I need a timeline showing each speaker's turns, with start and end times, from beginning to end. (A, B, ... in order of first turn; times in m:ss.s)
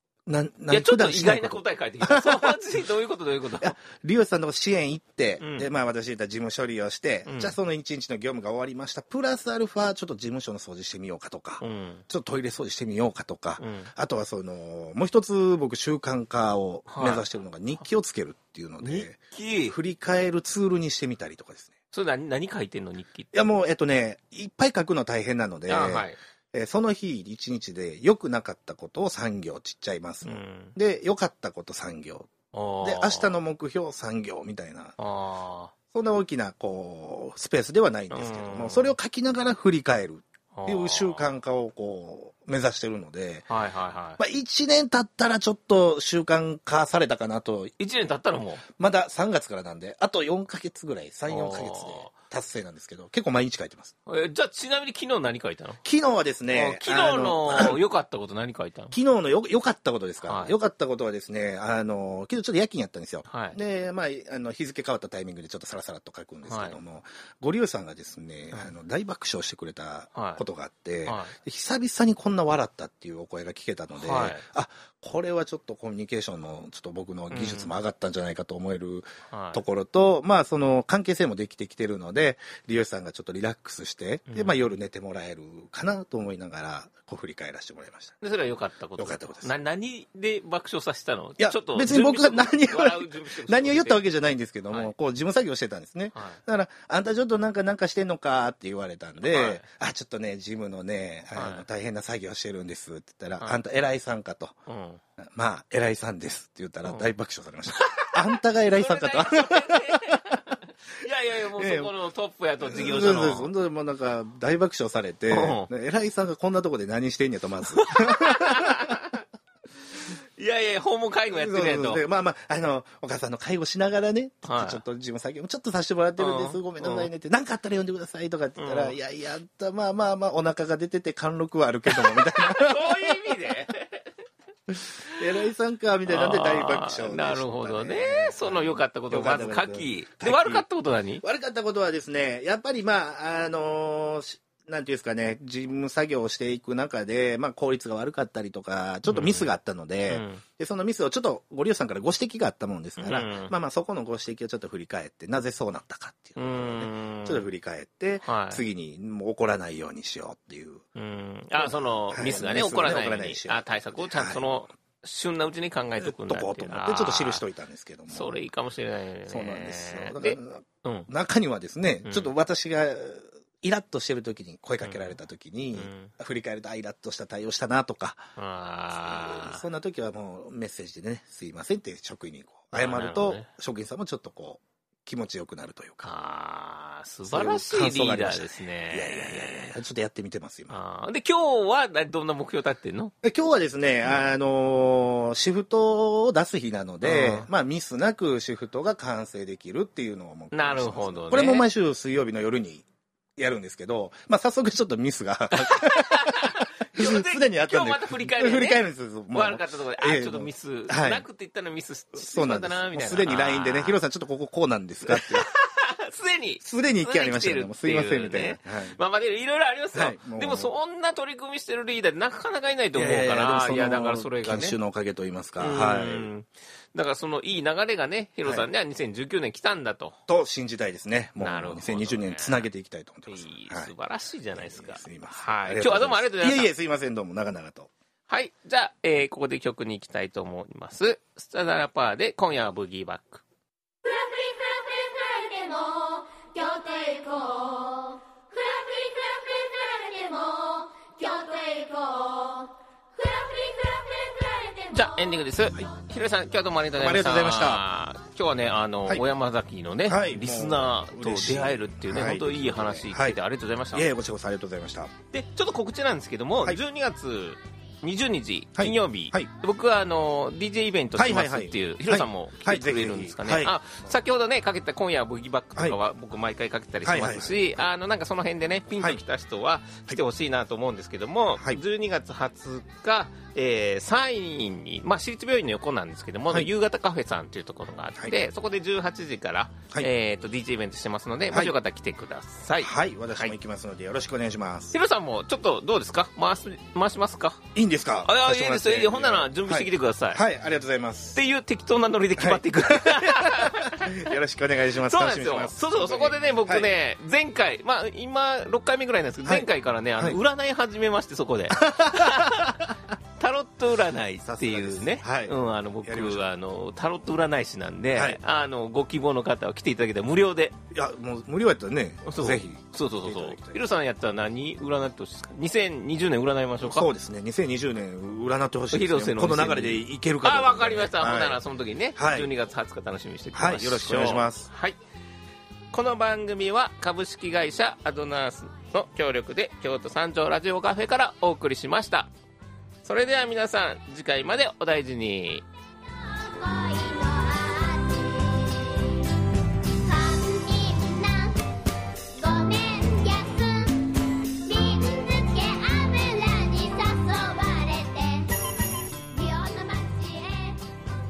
0:00.3-0:02.6 A
0:00.7-0:03.8 B
0:03.6-0:21.8 A
0:05.4-0:05.7 B
0:07.3-0:07.6 B
0:11.6-0:12.0 B
0:13.6-0:13.9 B
0:16.9-0:17.2 B
0:18.8-0:19.8 B
0:21.9-0:23.4 B
0:23.3-0:34.9 A
0:25.7-0:26.2 B
0:30.2-0:30.7 B
0:32.5-0:33.4 B
0:35.0-0:35.7 B
0:35.9-0:43.4 A
0:38.1-0:38.9 B
0:40.5-0:41.2 B
0:43.5-0:44.2 B
0:44.2-0:47.7 A
0:47.8-0:48.6 B
0:48.8-0:53.9 A
0:51.3-0:52.1 B
0:54.1-0:55.8 B
0:55.8-0:57.8 A
0:56.5-0:58.9 B
0:58.9-1:28.2 A
1:00.2-1:00.6 B
1:03.3-1:03.6 B
1:06.5-1:06.8 B
1:10.1-1:10.4 B
1:11.1-1:11.3 B
1:13.9-1:14.4 B
1:17.3-1:17.7 B
1:19.3-1:19.6 B
1:24.3-1:24.6 B
1:28.2-1:34.0 B
1:29.0-1:29.5 A
1:31.4-1:44.6 A
1:39.2-1:39.6 B
1:41.4-1:41.6 B
1:44.7-1:45.0 B
1:45.2-1:50.4 A
1:47.7-1:53.5 B
1:51.6-1:51.9 A
1:52.6-1:59.0 A
1:55.3-1:55.7 B
1:57.7-1:59.2 B
2:00.4-2:02.0 B
2:01.3-2:13.2 A
2:04.4-2:04.8 B
2:06.2-2:07.1 B
2:08.6-2:09.0 B
2:11.9-2:14.1 B
2:14.7-2:20.6 A
2:16.1-2:21.2 B
2:21.2-2:40.8 A
2:29.1-2:29.5 B
2:30.1-2:30.4 B
2:33.0-2:33.5 B
2:36.4-2:37.5 B
2:38.2-2:38.6 B
2:40.9-2:47.4 B
2:41.6-2:44.4 A
2:46.0-2:48.4 A
2:48.1-2:51.1 B
2:49.3-2:58.3 A
2:54.8-2:55.1 B
2:55.8-2:56.1 B
2:58.4-2:59.6 B
2:59.0-3:06.1 A
3:02.7-3:03.4 B
3:06.0-3:09.7 B
3:07.3-3:10.8 A
3:10.7-3:13.1 B
3:13.2-3:22.9 A
3:17.0-3:17.5 B
3:20.5-3:21.6 B
3:23.4-3:31.2 A
3:25.5-3:34.0 B
3:32.2-3:35.5 A
3:35.1-3:44.8 B
3:36.6-3:39.0 A
3:39.9-3:40.7 A
3:42.9-3:46.3 A
3:45.6-3:50.2 B
3:50.3-3:53.9 A
3:51.4-3:52.7 B
3:53.3-3:56.7 B
3:54.6-3:57.9 A
3:58.3-4:03.4 B
4:04.0-4:15.9 C
4:14.9-4:24.1 B
4:17.0-4:17.8 A
4:20.1-4:23.4 A
4:23.9-4:25.1 A
4:25.3-4:53.5 B
4:28.8-4:29.5 A
4:31.1-4:33.8 A
4:37.0-4:37.7 A
4:51.5-4:51.8 A
4:52.8-4:54.9 A
4:54.9-4:57.6 B
4:57.8-5:01.4 A
4:58.2-5:00.4 B
5:01.4-5:04.4 B
5:02.4-5:06.9 A
5:04.9-5:20.8 B
5:09.4-5:10.4 A
5:11.7-5:12.9 A
5:14.4-5:16.4 A
5:18.1-5:18.4 A
5:20.9-5:23.8 A
5:22.2-5:27.1 B
5:26.8-5:31.6 A
5:28.9-5:35.0 B
5:32.2-5:32.5 A
5:33.5-5:34.7 A
5:35.9-5:42.3 B
5:43.0-5:45.6 B
5:46.0-5:49.3 C
5:50.0-5:51.6 C
5:52.3-5:58.5 C
5:59.3-6:00.9 C